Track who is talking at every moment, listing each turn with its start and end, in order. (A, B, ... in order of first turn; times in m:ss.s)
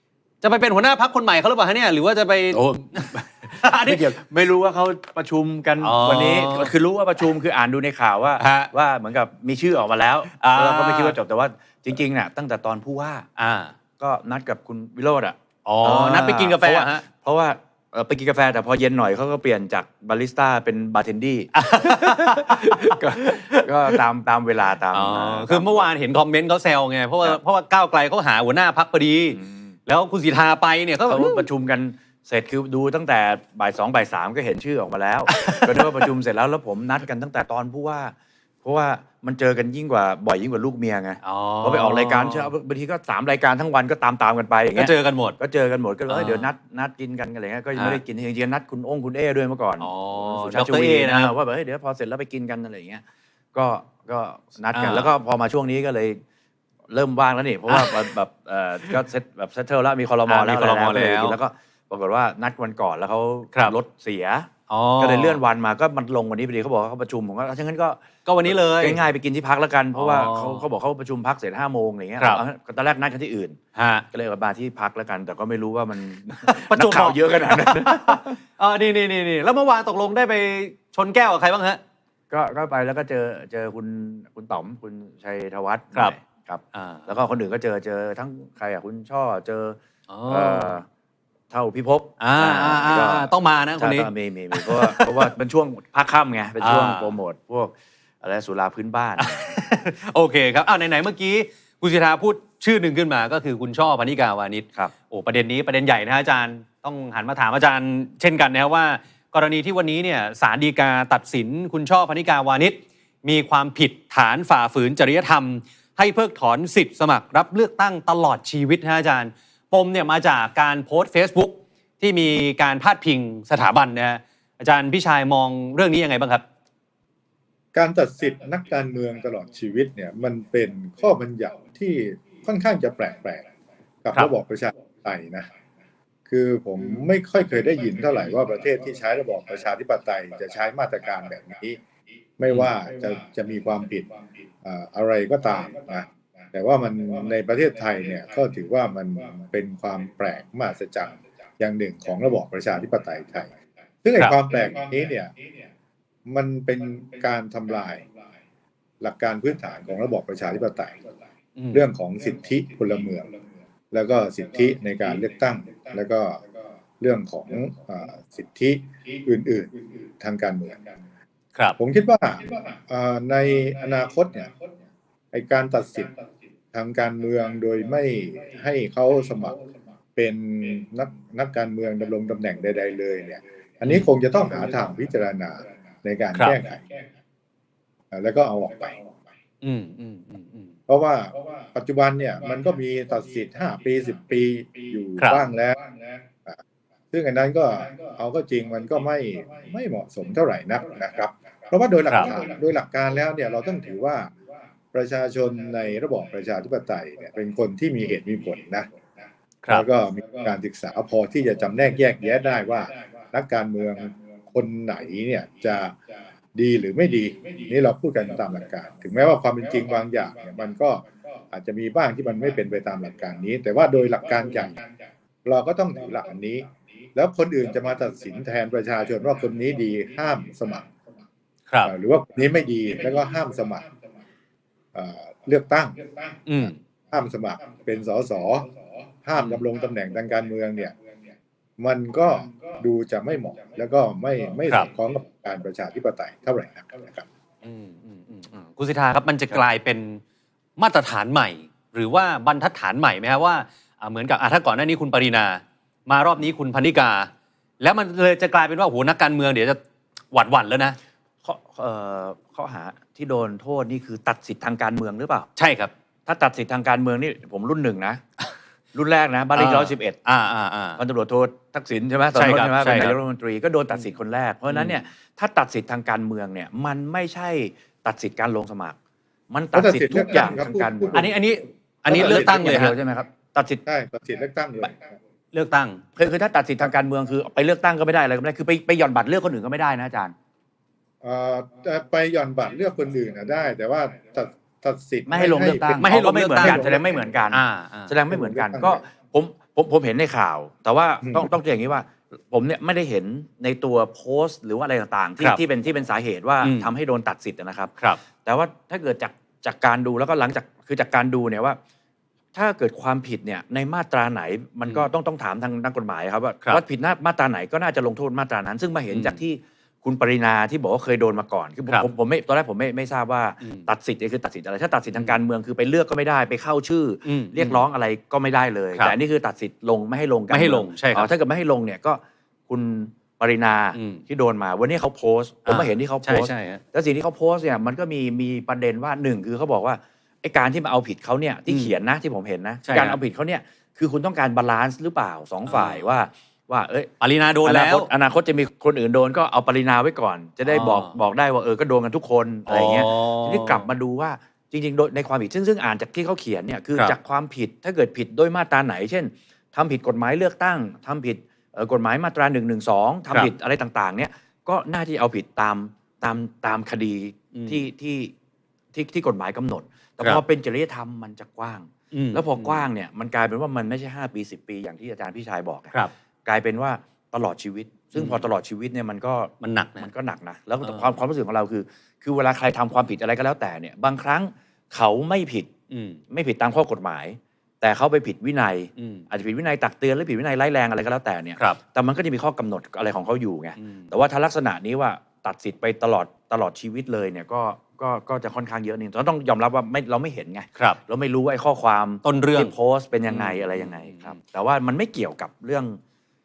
0:00.4-0:03.1 A
0:02.5-0:13.2 B
0:03.6-0:04.1 A
0:05.8-0:06.7 A
0:08.4-0:08.7 A
0:10.2-0:11.2 A
0:13.4-0:13.7 A
0:14.0-0:25.9 B
0:15.6-0:17.0 A
0:21.5-0:24.0 A
0:24.9-0:31.5 A
0:29.4-0:29.8 B
0:31.1-0:53.0 B
0:35.3-0:36.1 A
0:41.2-0:42.5 A
0:44.7-0:45.4 A
0:46.1-0:46.5 A
0:47.8-0:48.0 A
0:49.8-0:51.4 A
0:53.5-0:56.2 B
0:54.7-0:55.1 A
0:56.9-1:13.6 B
0:57.7-0:58.1 A
1:00.3-1:01.4 A
1:04.7-1:05.4 A
1:08.2-1:09.0 A
1:09.9-1:10.7 A
1:13.8-1:14.1 A
1:14.1-1:18.4 B
1:16.5-1:21.8 A
1:22.3-1:29.8 B
1:26.7-1:27.2 A
1:30.1-1:30.8 A
1:30.3-1:30.9 B
1:31.5-1:39.4 B
1:32.2-1:35.3 A
1:36.6-1:37.2 A
1:39.2-2:06.4 A
2:07.8-2:13.5 C
2:14.0-2:15.5 C
2:16.3-2:21.8 C
2:22.4-2:33.5 C
2:34.0-2:35.3 C
2:36.3-2:38.1 C
2:39.0-2:41.0 C
2:41.6-2:41.8 A
2:41.7-2:43.3 C
2:43.9-2:46.4 C
2:47.0-2:50.8 C
2:51.8-2:54.5 C
2:55.3-2:56.1 C
2:56.7-2:59.6 C
3:00.2-3:06.9 C
3:03.8-3:04.1 A
3:08.1-3:09.0 C
3:09.6-3:10.7 A
3:10.9-3:15.8 C
3:15.2-3:15.4 A
3:17.1-3:24.3 C
3:24.9-3:28.9 C
3:29.7-3:36.0 C
3:36.6-3:44.8 C
3:45.4-3:50.9 C
3:51.8-3:53.9 C
3:55.0-3:56.0 C
3:56.5-3:56.8 A
3:57.1-3:58.7 C
3:59.2-4:01.0 C
3:59.4-3:59.6 A
4:01.8-4:07.3 C
4:07.6-4:10.2 A
4:10.8-4:19.8 A
4:20.3-4:21.0 A
4:21.4-4:25.5 B
4:25.6-4:25.9 A
4:26.3-4:28.2 B
4:28.9-4:30.2 B
4:29.6-4:31.0 A
4:31.0-4:39.0 B
4:32.3-4:33.2 A
4:34.7-4:35.0 A
4:39.5-4:41.3 B
4:39.7-4:41.3 C
4:41.1-4:43.0 A
4:42.1-4:42.6 C
4:42.1-4:43.8 B
4:43.9-4:45.0 C
4:45.5-4:46.0 A
4:46.2-4:50.3 B
4:51.2-4:57.4 C
4:55.3-5:07.9 B
4:56.0-4:56.9 A
4:57.5-4:58.1 A
4:58.3-4:59.0 C
5:06.6-5:06.9 A
5:08.4-5:11.8 B
5:12.6-5:47.1 B
5:19.1-5:19.4 A
5:23.6-5:23.9 A
5:27.2-5:27.8 A
5:30.5-5:31.3 A
5:33.9-5:34.2 A
5:35.7-5:36.8 A
5:41.7-5:42.0 A
5:42.8-5:43.2 A
5:45.7-5:46.1 A
5:47.2-5:48.1 A
5:47.6-6:08.3 B
5:50.6-5:51.2 A
5:52.7-5:53.9 A
6:07.5-6:07.8 A
6:08.9-6:15.9 B
6:12.1-6:12.8 A
6:16.4-6:25.7 B
6:18.2-6:18.5 A
6:19.6-6:20.1 A
6:20.8-6:21.2 A
6:25.9-6:26.2 A
6:26.3-6:46.0 B
6:29.0-6:29.2 A
6:33.8-6:34.1 A
6:42.2-6:42.7 A
6:43.3-6:44.4 A